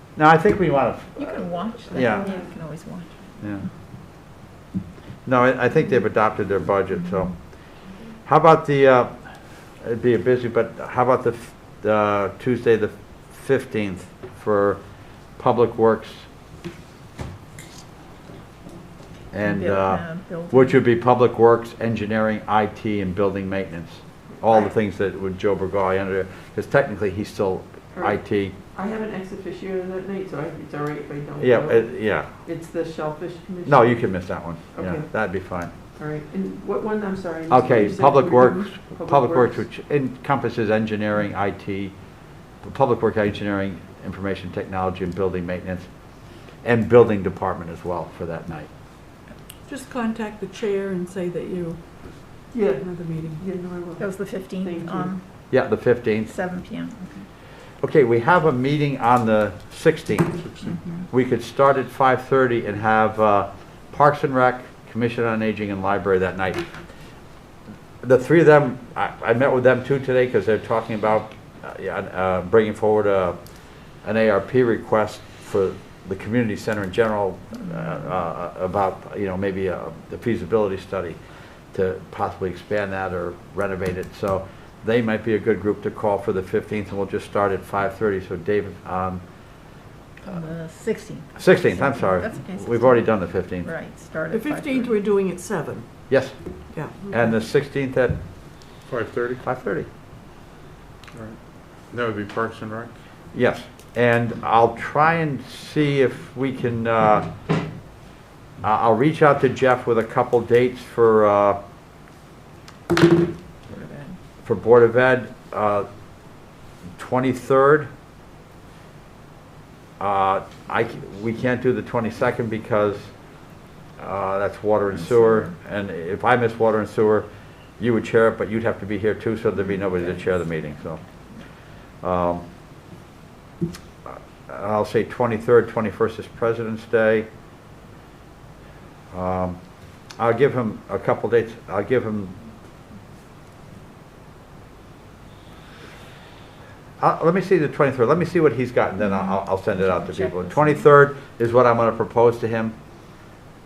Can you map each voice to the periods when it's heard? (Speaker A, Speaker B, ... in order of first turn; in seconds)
Speaker A: 0.2-2.3, 3.4-3.7, 5.3-9.1, 9.8-16.3, 19.3-28.6, 31.4-32.3, 33.7-35.7, 37.5-42.0, 42.6-45.9, 46.6-48.7, 55.5-56.3, 57.8-60.4, 61.1-66.8, 68.0-73.4, 74.0-81.2, 81.7-89.2, 91.4-93.7, 96.1-96.4, 97.1-98.2, 99.4-99.9, 103.3-107.3, 108.6-111.6, 114.4-115.9, 117.0-117.9, 120.0-123.1, 124.0-127.3, 127.8-131.0, 132.0-132.4, 134.1-137.3, 139.1-139.6, 140.2-142.3, 147.0-152.7
Speaker B: 1.2-3.1, 19.4-20.8, 54.0-55.2, 56.2-57.2, 60.6-61.0, 90.2-95.0, 113.7-114.2, 124.9-125.5, 129.6-130.4, 149.0-150.9
Speaker C: 27.9-34.1, 34.7-35.1, 36.0-39.6, 52.5-52.9, 53.4-55.1
Speaker D: 49.7-51.8, 52.8-53.4, 94.3-95.9, 96.7-97.4
Speaker E: 60.4-60.8, 98.9-99.4, 101.1-102.9